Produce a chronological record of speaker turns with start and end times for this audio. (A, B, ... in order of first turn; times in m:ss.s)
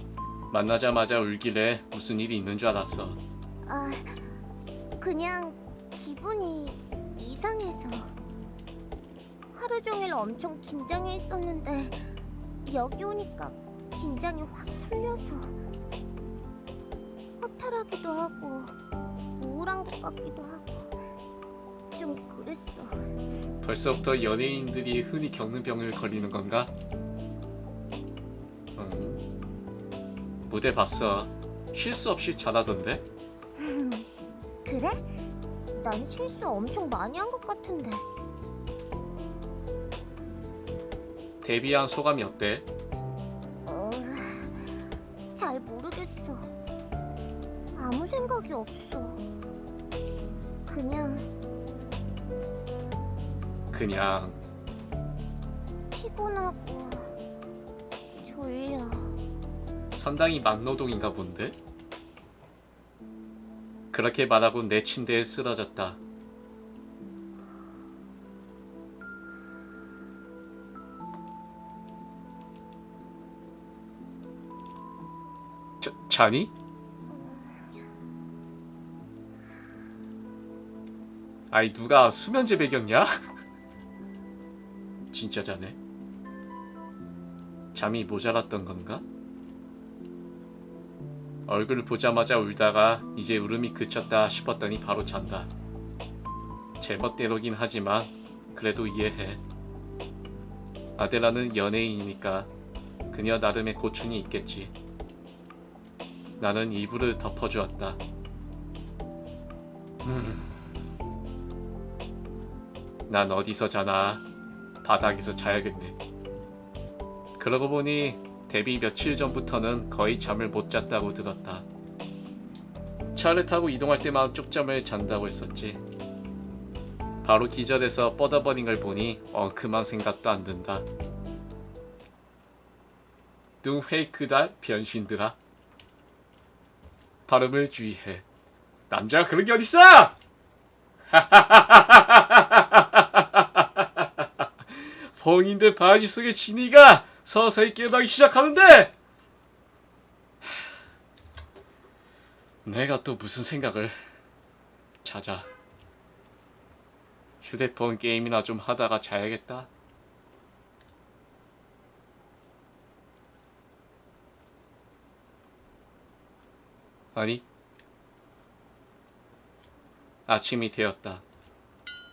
0:00.5-0:03.2 A
0:03.7-0:04.2 B
0:05.0-0:08.1 B
0:09.5-0:12.0 B
0:12.6-0:15.6 B
0:17.4-0:18.8 B
0:19.4-0:20.9 B
0:21.9-0:23.2 B
0:23.6-0:26.7 A
0:28.8-0:29.2 A
0:30.4-0:33.0 A
0:33.6-0:34.1 B
0:34.6-0:35.1 B
0:35.7-0:38.0 B
0:41.4-0:42.7 A
0:43.7-0:44.6 B
0:45.4-0:46.5 B
0:47.8-0:49.2 B
0:50.7-0:51.3 B
0:53.7-0:54.4 A
0:55.9-0:57.2 B
0:58.2-0:59.2 B
1:00.0-1:01.6 A
1:03.9-1:06.0 A
1:15.8-1:16.5 A
1:17.1-1:17.9 B
1:21.5-1:23.2 A
1:25.1-1:25.8 A
1:27.8-1:29.0 A
1:31.5-1:35.5 A
1:36.8-1:39.4 A
1:41.0-1:42.5 A
1:43.1-1:44.7 A
1:46.4-1:48.0 A
1:50.0-1:50.5 A
1:53.1-1:54.2 A
1:54.8-1:56.0 A
1:57.4-2:01.7 A
2:03.1-2:05.8 A
2:07.2-2:10.8 A
2:13.6-2:15.4 A
2:17.3-2:18.2 A
2:18.9-2:20.2 A
2:21.1-2:28.9 A
2:32.6-2:34.0 A
2:35.0-2:35.5 A
2:37.4-2:39.7 A
2:47.2-2:47.4 A
2:50.3-2:51.2 A